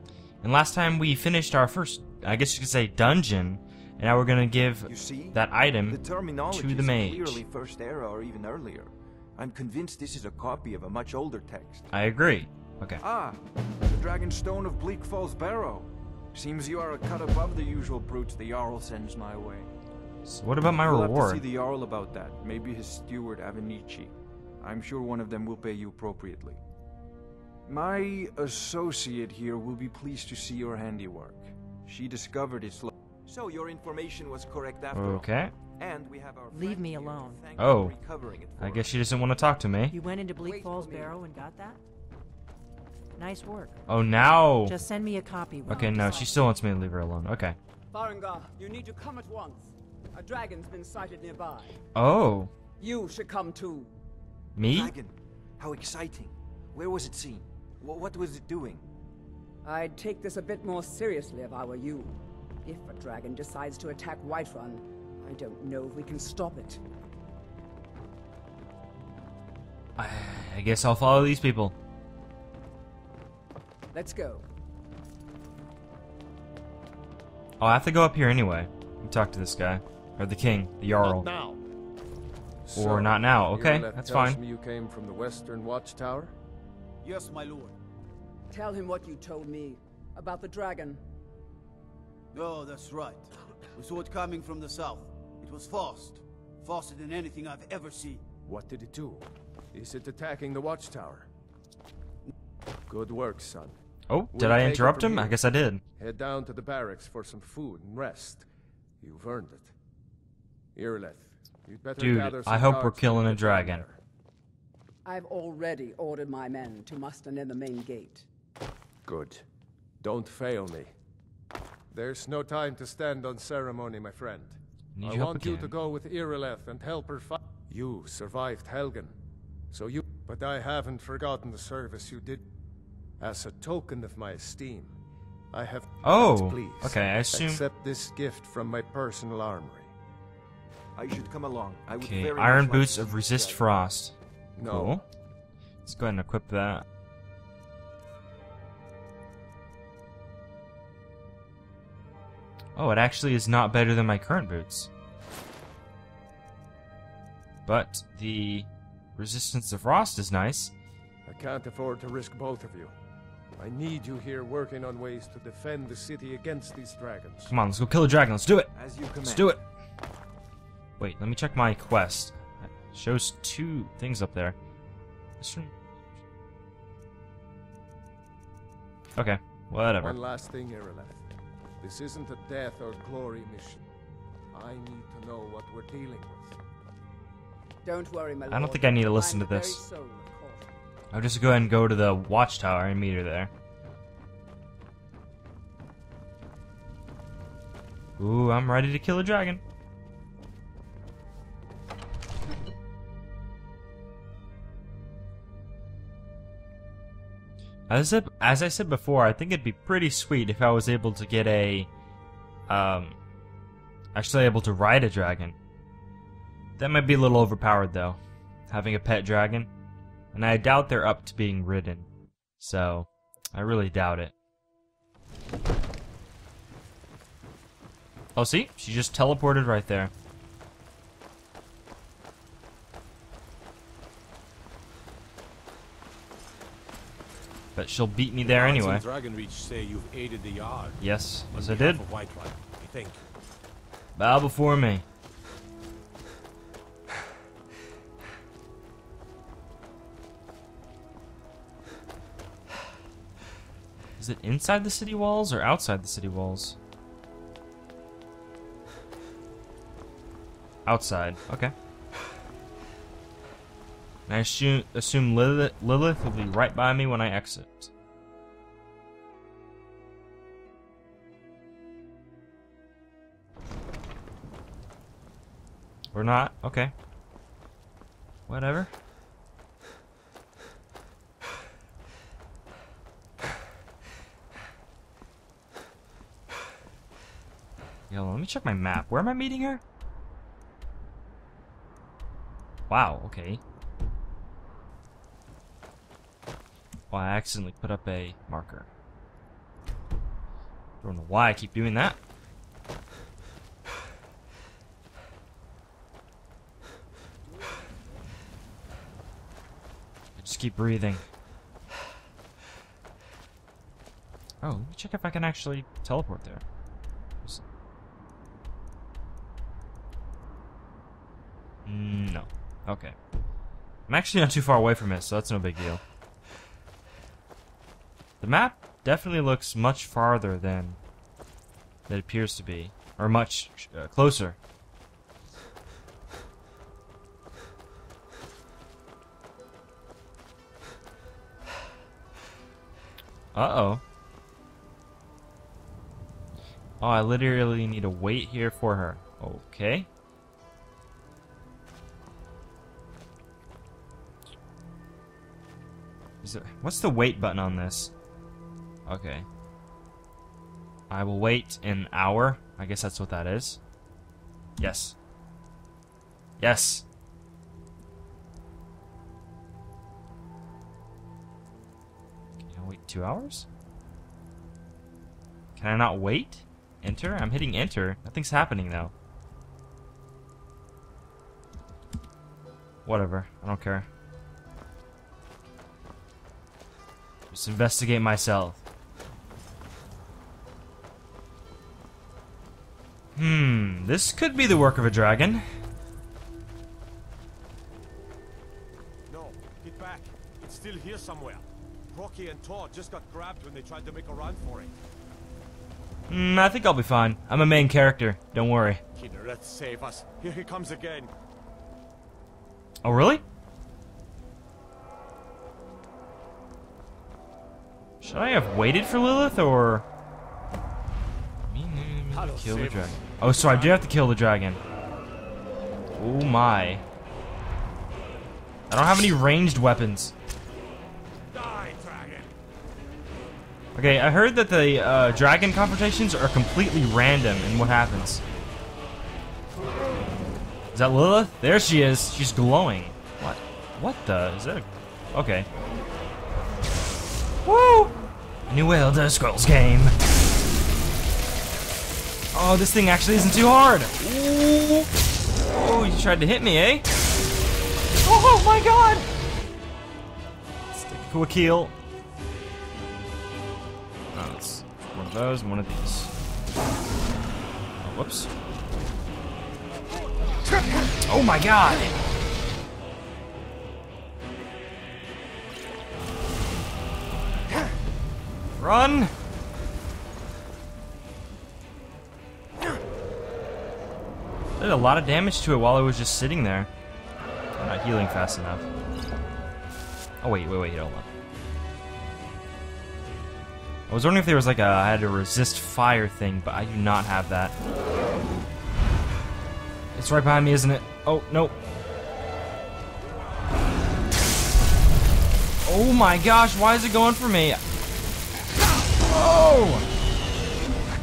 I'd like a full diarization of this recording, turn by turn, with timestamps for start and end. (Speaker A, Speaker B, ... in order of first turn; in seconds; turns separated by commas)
Speaker A: 0.4-7.4, Speaker B: 4.9-11.9, Speaker A: 11.9-13.0, Speaker B: 13.0-19.7, Speaker A: 20.2-21.4, Speaker B: 20.8-26.6, Speaker B: 27.7-39.0, Speaker A: 34.9-35.5, Speaker C: 36.5-37.4, Speaker A: 37.6-38.0, Speaker A: 38.6-40.0, Speaker C: 39.9-41.8, Speaker D: 40.4-41.2, Speaker C: 43.2-43.8, Speaker A: 43.9-44.8, Speaker C: 44.6-46.4, Speaker A: 45.6-47.6, Speaker D: 47.9-51.7, Speaker A: 52.0-52.5, Speaker D: 52.8-53.9, Speaker A: 54.6-54.9, Speaker B: 54.7-58.9, Speaker D: 59.6-66.8, Speaker A: 70.0-71.8, Speaker D: 73.9-74.5, Speaker A: 77.6-81.3, Speaker E: 81.0-81.6, Speaker E: 82.7-86.3, Speaker A: 82.8-84.4, Speaker F: 87.0-87.8, Speaker D: 88.5-91.0, Speaker F: 92.3-98.2, Speaker E: 98.5-101.3, Speaker E: 102.9-103.8, Speaker A: 104.1-105.8, Speaker E: 104.3-105.4, Speaker E: 106.0-108.5, Speaker E: 109.0-109.7, Speaker E: 110.8-114.0, Speaker A: 112.0-113.8, Speaker D: 115.0-118.3, Speaker E: 119.1-119.4, Speaker E: 120.0-120.9, Speaker E: 121.9-129.2, Speaker A: 125.0-125.7, Speaker E: 129.7-132.5, Speaker E: 133.2-135.0, Speaker E: 135.5-139.9, Speaker A: 136.0-137.6, Speaker B: 141.0-143.7, Speaker A: 142.0-145.1, Speaker E: 144.6-145.0, Speaker A: 145.8-146.8, Speaker A: 152.8-154.9, Speaker A: 157.7-160.7, Speaker E: 161.3-162.9, Speaker E: 163.6-167.6, Speaker A: 167.5-168.7, Speaker B: 168.7-169.5, Speaker A: 169.2-169.6, Speaker A: 171.0-174.6, Speaker A: 175.4-175.7, Speaker A: 179.2-180.2, Speaker E: 180.0-181.3, Speaker E: 181.8-183.8, Speaker E: 184.5-186.6, Speaker D: 187.8-190.7, Speaker A: 188.5-189.8, Speaker A: 191.1-193.5, Speaker A: 198.2-199.6, Speaker A: 207.9-211.9, Speaker A: 212.7-213.2, Speaker A: 214.2-215.6, Speaker A: 216.8-219.7, Speaker A: 220.3-222.1, Speaker A: 222.6-224.3, Speaker A: 228.3-230.1, Speaker A: 237.8-239.0, Speaker G: 238.4-241.0, Speaker A: 241.0-242.0, Speaker G: 241.5-243.2, Speaker A: 244.2-245.0, Speaker A: 254.2-256.8, Speaker A: 260.9-261.7, Speaker A: 264.3-267.9, Speaker A: 276.1-276.9, Speaker A: 278.5-278.9, Speaker A: 288.1-289.8, Speaker A: 292.9-293.6, Speaker A: 297.1-298.9, Speaker A: 301.0-302.2, Speaker A: 310.4-311.3, Speaker A: 314.6-316.6, Speaker A: 321.9-323.2, Speaker A: 324.1-326.0, Speaker A: 328.4-331.0, Speaker A: 332.1-334.6, Speaker A: 343.5-344.0, Speaker A: 347.0-350.1, Speaker A: 356.4-358.1, Speaker A: 359.1-359.5, Speaker A: 361.1-363.8, Speaker A: 364.8-365.2, Speaker A: 366.6-367.1, Speaker A: 372.6-373.7, Speaker A: 375.8-379.1, Speaker A: 383.1-384.1, Speaker A: 387.5-388.8, Speaker A: 393.4-395.6, Speaker G: 399.3-404.9, Speaker A: 406.3-409.0, Speaker G: 409.1-411.3, Speaker A: 413.0-413.4, Speaker A: 418.2-420.1, Speaker A: 421.7-424.8, Speaker G: 422.3-424.0, Speaker A: 426.2-427.0, Speaker A: 428.9-430.3, Speaker G: 431.5-432.5, Speaker A: 433.9-438.4, Speaker A: 440.9-445.7, Speaker A: 447.6-448.1, Speaker A: 448.7-450.1, Speaker A: 452.5-455.1, Speaker A: 455.7-457.1, Speaker A: 458.2-459.3, Speaker A: 460.9-461.9, Speaker A: 464.3-466.3, Speaker A: 468.0-468.5, Speaker A: 471.2-472.1, Speaker A: 478.8-479.3, Speaker A: 484.8-486.9, Speaker A: 487.8-488.9, Speaker A: 490.4-491.3, Speaker A: 494.1-497.8, Speaker A: 500.1-501.7, Speaker A: 505.8-507.8, Speaker A: 509.2-510.1